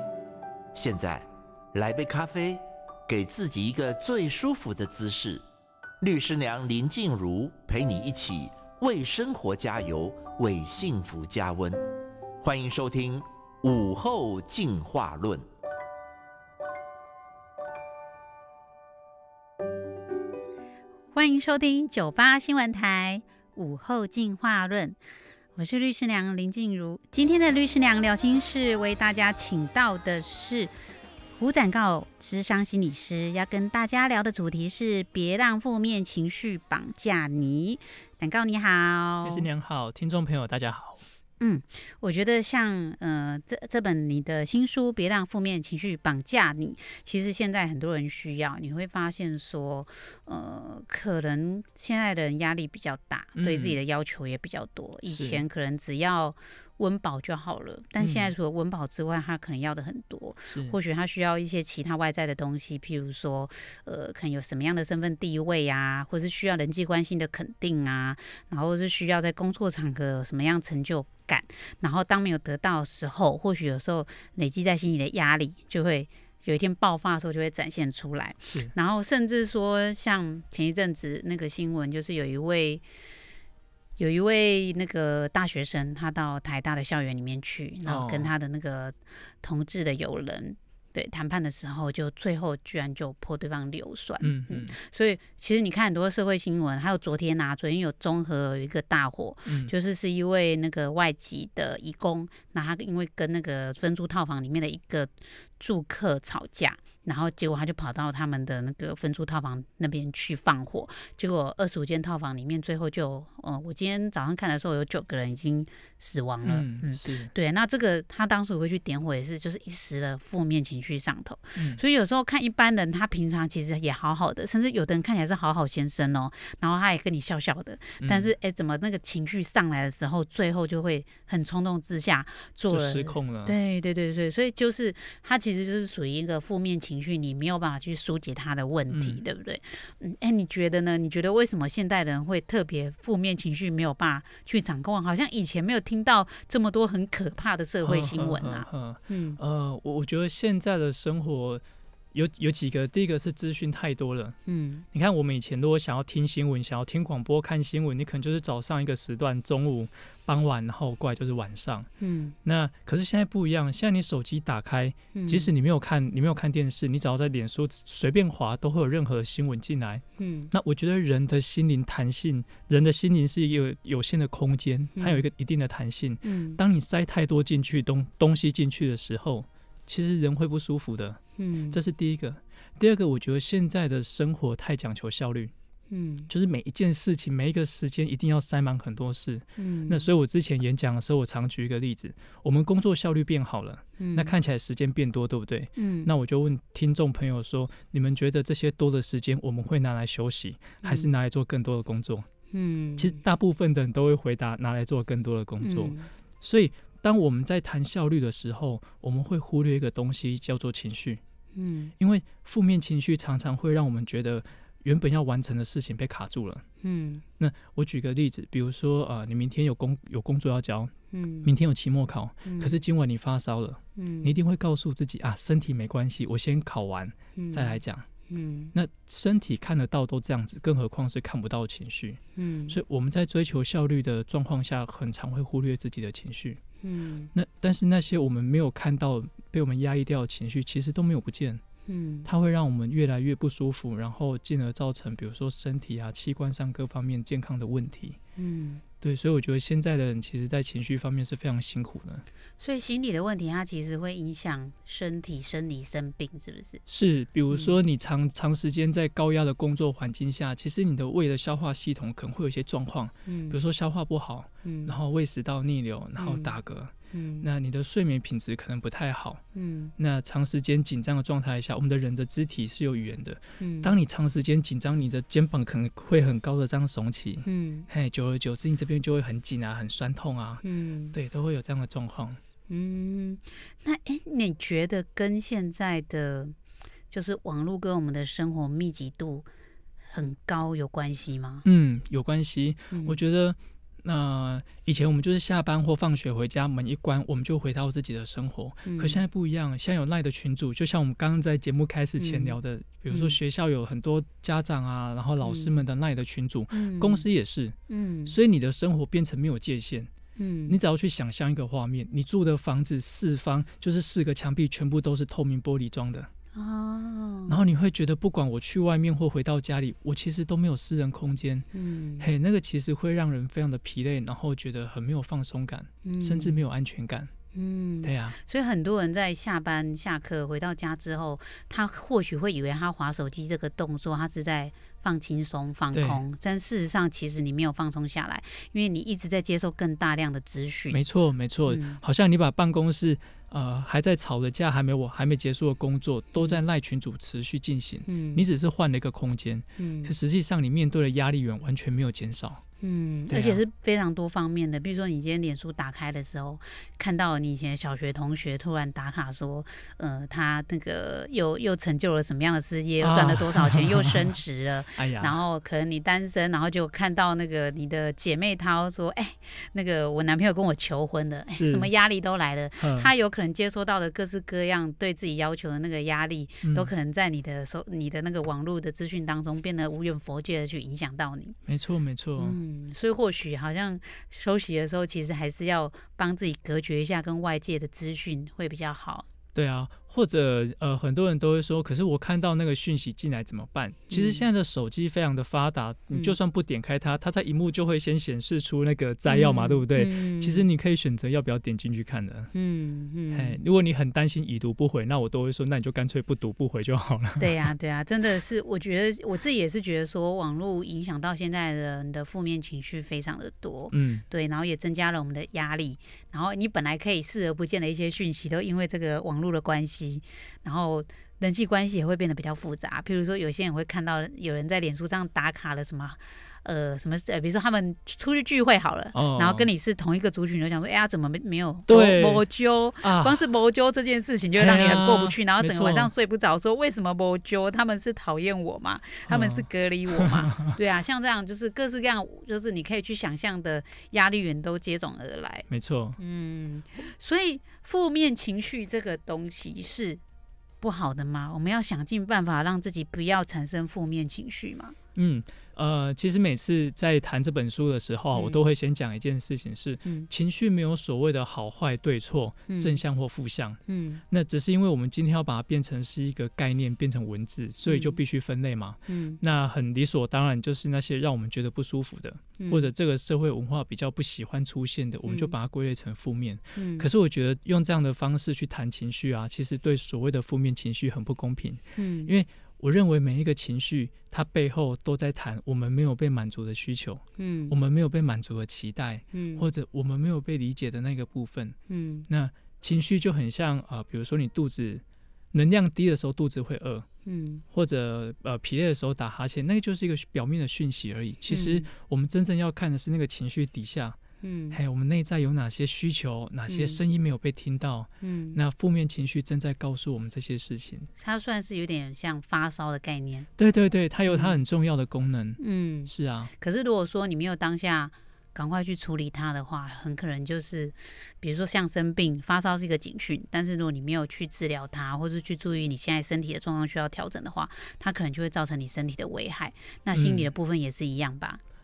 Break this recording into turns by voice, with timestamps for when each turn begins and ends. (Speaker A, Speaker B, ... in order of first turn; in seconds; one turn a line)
Speaker A: 0.7-5.4
Speaker A: 6.0-11.8
Speaker A: 12.4-15.4
Speaker B: 21.1-25.0
Speaker B: 25.6-30.7
Speaker B: 31.4-39.5
Speaker C: 39.2-41.0
Speaker B: 41.4-82.8
Speaker C: 53.4-53.8
Speaker C: 55.1-55.4
Speaker C: 58.0-58.3
Speaker C: 60.5-60.8
Speaker C: 78.4-78.7
Speaker B: 84.0-149.4
Speaker C: 87.9-88.3
Speaker C: 94.2-94.8
Speaker C: 99.5-99.7
Speaker C: 116.4-117.3
Speaker C: 121.6-121.8
Speaker C: 128.0-128.3
Speaker C: 132.7-133.6
Speaker C: 138.9-139.2
Speaker C: 147.8-154.4
Speaker B: 154.5-154.8
Speaker C: 154.9-161.9
Speaker B: 162.0-162.3
Speaker C: 162.4-185.5
Speaker B: 165.1-165.5
Speaker B: 170.2-170.5
Speaker B: 175.0-175.2
Speaker B: 176.2-176.6
Speaker B: 181.4-181.8
Speaker B: 185.9-186.3
Speaker C: 186.3-202.3
Speaker B: 189.6-190.1
Speaker B: 194.0-194.3
Speaker B: 195.8-196.1
Speaker B: 200.8-201.1
Speaker B: 202.5-203.2
Speaker C: 203.0-211.2
Speaker B: 205.6-206.1
Speaker B: 211.6-211.9
Speaker C: 212.0-216.6
Speaker B: 216.8-217.2
Speaker C: 217.4-228.1
Speaker B: 221.1-221.5
Speaker B: 222.4-222.8
Speaker B: 224.0-224.4
Speaker B: 227.4-227.8
Speaker B: 228.3-228.7
Speaker C: 228.7-236.6
Speaker B: 232.4-232.8
Speaker B: 236.8-237.3
Speaker C: 237.3-241.6
Speaker B: 241.9-242.3
Speaker C: 242.2-248.2
Speaker B: 248.4-248.8
Speaker C: 249.0-252.2
Speaker B: 252.6-256.8
Speaker C: 256.9-269.4
Speaker B: 263.3-263.6
Speaker B: 264.6-264.9
Speaker B: 266.2-266.6
Speaker B: 267.1-267.5
Speaker B: 269.6-269.9
Speaker C: 270.0-282.4
Speaker B: 273.6-273.9
Speaker B: 277.4-277.9
Speaker B: 280.6-281.2
Speaker B: 282.7-286.6
Speaker B: 287.1-289.5
Speaker B: 290.1-291.6
Speaker C: 291.6-310.1
Speaker B: 292.9-293.2
Speaker B: 298.9-299.2
Speaker B: 302.2-302.6
Speaker B: 303.1-303.4
Speaker B: 305.4-305.8
Speaker B: 306.7-307.2
Speaker B: 307.9-308.4
Speaker B: 310.4-310.8
Speaker C: 310.7-316.3
Speaker B: 316.6-317.6
Speaker C: 317.5-321.7
Speaker B: 321.7-322.3
Speaker C: 322.2-327.3
Speaker B: 326.0-326.6
Speaker B: 327.5-341.0
Speaker C: 328.0-328.4
Speaker C: 335.9-336.2
Speaker C: 340.9-352.6
Speaker B: 341.7-342.0
Speaker B: 346.3-346.6
Speaker B: 348.1-348.5
Speaker B: 349.8-350.1
Speaker B: 352.8-381.6
Speaker C: 353.3-353.6
Speaker C: 363.0-364.4
Speaker C: 365.0-365.4
Speaker C: 371.5-371.9
Speaker C: 372.8-373.1
Speaker C: 376.6-376.9
Speaker C: 381.7-382.6
Speaker B: 382.4-389.3
Speaker C: 389.6-402.5
Speaker B: 394.1-394.5
Speaker B: 399.3-400.7
Speaker B: 402.5-403.6
Speaker C: 403.3-407.6
Speaker B: 407.4-445.7
Speaker C: 413.9-414.2
Speaker C: 429.1-429.7
Speaker C: 431.9-432.4
Speaker C: 433.0-433.4
Speaker C: 434.6-436.1
Speaker C: 439.3-440.8
Speaker C: 445.7-446.2
Speaker B: 446.2-450.2
Speaker B: 450.8-454.9
Speaker C: 455.2-491.8
Speaker B: 458.3-458.6
Speaker B: 462.7-463.0
Speaker B: 463.9-464.2
Speaker B: 467.9-468.2
Speaker B: 469.1-469.4
Speaker B: 472.6-472.9
Speaker B: 475.3-475.5
Speaker B: 476.8-477.1
Speaker B: 482.0-482.3
Speaker B: 487.4-487.8
Speaker B: 489.3-489.7
Speaker B: 491.9-492.3
Speaker C: 492.3-497.1
Speaker B: 497.3-497.6
Speaker C: 497.7-504.2
Speaker B: 501.5-501.9
Speaker B: 504.4-504.8
Speaker C: 504.7-511.1
Speaker B: 506.7-507.0
Speaker B: 508.2-508.6
Speaker B: 511.2-513.5
Speaker C: 513.6-516.5
Speaker B: 514.3-514.6
Speaker B: 515.6-531.6
Speaker C: 530.1-530.5